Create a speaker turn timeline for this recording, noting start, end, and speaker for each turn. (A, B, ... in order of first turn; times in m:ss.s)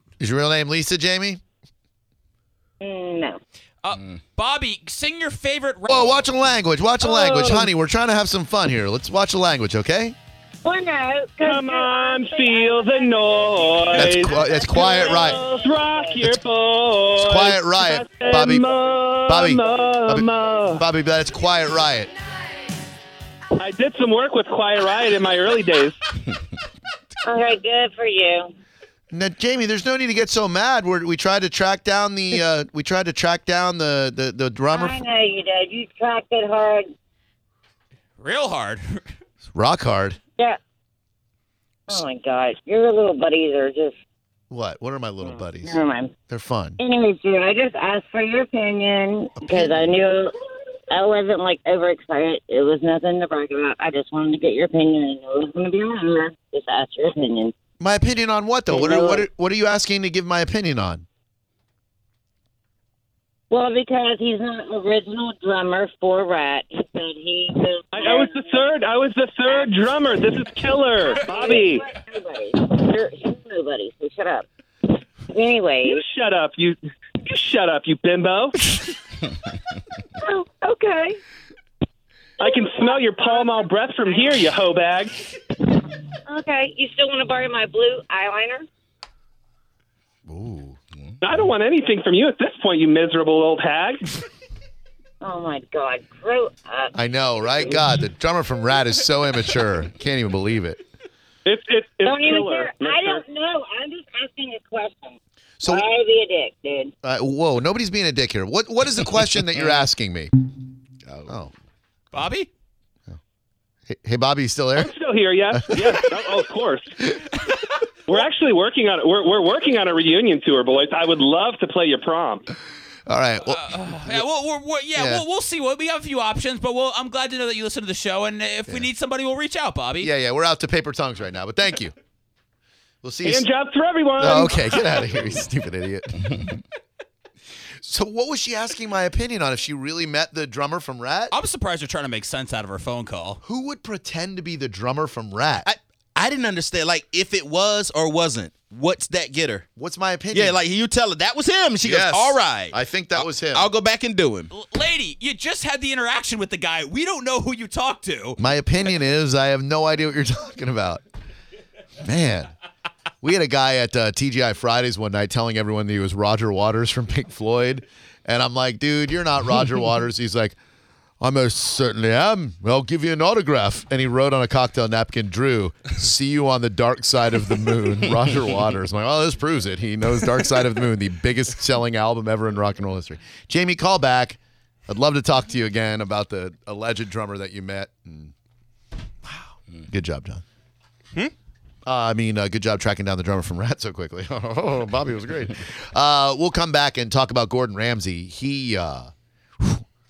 0:00.2-0:01.4 A
0:02.8-0:03.4 B
0:03.8-0:06.2 C
0:05.9-0:10.2 A
0:07.0-0:07.6 D
0:10.6-0:16.3 B
0:11.4-0:20.8 D
0:13.9-0:15.4 A
0:17.2-0:18.7 A
0:19.3-0:22.1 A
0:23.6-0:26.0 D
0:27.2-0:28.5 B
0:29.1-0:35.0 A
0:34.7-0:36.9 B
0:38.2-0:39.0 C
0:39.5-0:40.2 A
0:41.9-0:44.0 B
0:44.5-0:45.8 A
0:45.2-0:46.1 B
0:46.3-0:46.8 A
0:46.8-0:50.3 B
0:49.4-0:50.0 A
0:50.9-0:57.5 B
0:57.8-1:01.0 A
0:58.7-0:59.2 B
1:03.5-1:08.8 B
1:07.9-1:11.8 D
1:09.4-1:10.2 B
1:11.0-1:16.0 B
1:15.8-1:18.6 D
1:20.2-1:21.2 B
1:22.4-1:24.5 B
1:22.4-1:25.2 D
1:26.1-1:28.7 B
1:30.3-1:30.8 A
1:31.2-1:34.0 D
1:35.2-1:36.9 B
1:36.9-1:40.8 A
1:41.4-1:43.2 D
1:42.0-1:46.9 B
1:45.6-1:45.8 A
1:47.0-1:50.3 A
1:51.2-1:51.5 A
1:52.1-1:52.5 C
1:53.9-1:54.9 A
1:54.8-1:56.9 D
1:55.5-1:56.0 A
1:58.0-2:02.4 D
2:03.1-2:04.2 A
2:03.4-2:10.1 C
2:04.9-2:05.2 A
2:10.0-2:11.9 A
2:13.0-2:13.4 A
2:13.2-2:15.0 D
2:14.2-2:16.5 A
2:17.8-2:21.3 A
2:21.3-2:23.4 C
2:23.4-2:25.7 A
2:25.6-2:29.7 E
2:29.8-2:30.6 A
2:30.3-2:34.5 E
2:31.8-2:33.7 A
2:34.5-2:38.4 C
2:38.4-2:41.0 A
2:42.0-2:42.5 A
2:43.2-2:50.6 A
2:51.2-3:08.3 A
3:09.3-3:10.4 A
3:11.8-3:19.8 A